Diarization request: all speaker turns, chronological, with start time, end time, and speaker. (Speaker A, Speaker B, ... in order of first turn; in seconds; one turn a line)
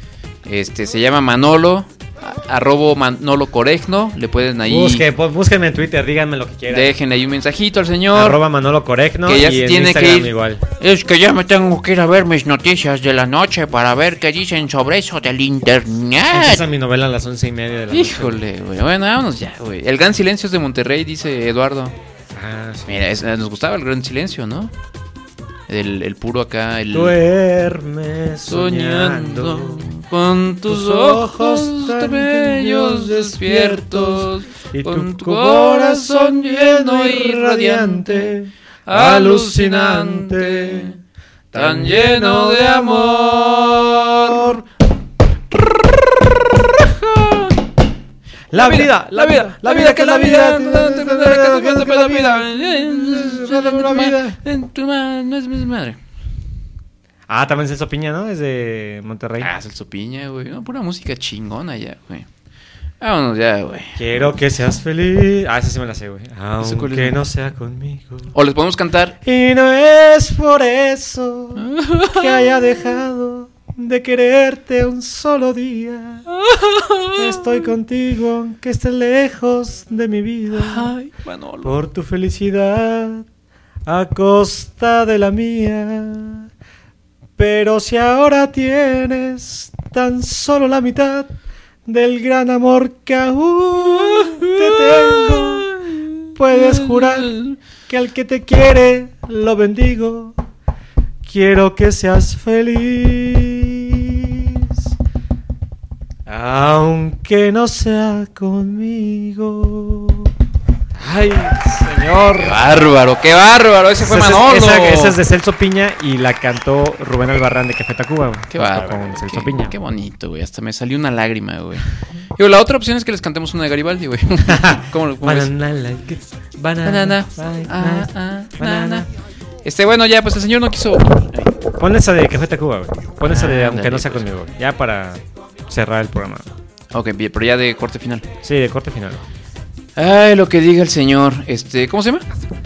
Speaker A: 0.4-5.1
Speaker B: 4.7-6.9
Speaker A: 6.7-8.4
Speaker B: 8.1-10.6
Speaker A: 9.2-16.7
Speaker B: 16.3-18.4
Speaker A: 17.9-21.9
Speaker B: 22.3-23.0
Speaker A: 22.9-24.7
Speaker A: 25.7-27.2
Speaker B: 26.9-29.9
Speaker A: 28.5-38.3
Speaker B: 30.6-41.0
Speaker A: 38.9-41.0
Speaker B: 41.5-43.6
Speaker A: 41.5-44.6
Speaker B: 44.2-44.6
Speaker A: 46.7-47.6
Speaker B: 48.5-54.4
Speaker A: 48.5-56.0
Speaker B: 57.3-59.5
Speaker A: 59.4-62.3
Speaker A: 63.0-64.0
Speaker B: 64.0-68.3
Speaker A: 66.6-67.2
Speaker A: 68.3-69.2
Speaker B: 69.2-76.3
Speaker A: 71.5-72.4
Speaker A: 76.3-77.4
Speaker B: 77.1-80.9
Speaker A: 80.5-81.7
Speaker B: 81.6-83.2
Speaker B: 83.8-86.5
Speaker B: 87.4-91.3
Speaker B: 91.8-95.8
Speaker A: 93.8-97.6
Speaker B: 96.3-100.3
Speaker B: 101.2-104.7
Speaker B: 106.3-110.3
Speaker B: 111.0-112.5
Speaker A: 112.4-115.2
Speaker B: 114.0-119.7
Speaker A: 118.5-125.5
Speaker B: 124.4-129.1
Speaker A: 126.8-129.1
Speaker A: 129.6-131.6
Speaker B: 131.8-136.5
Speaker A: 133.2-134.2
Speaker A: 136.9-138.3
Speaker B: 138.4-139.2
Speaker A: 139.9-142.2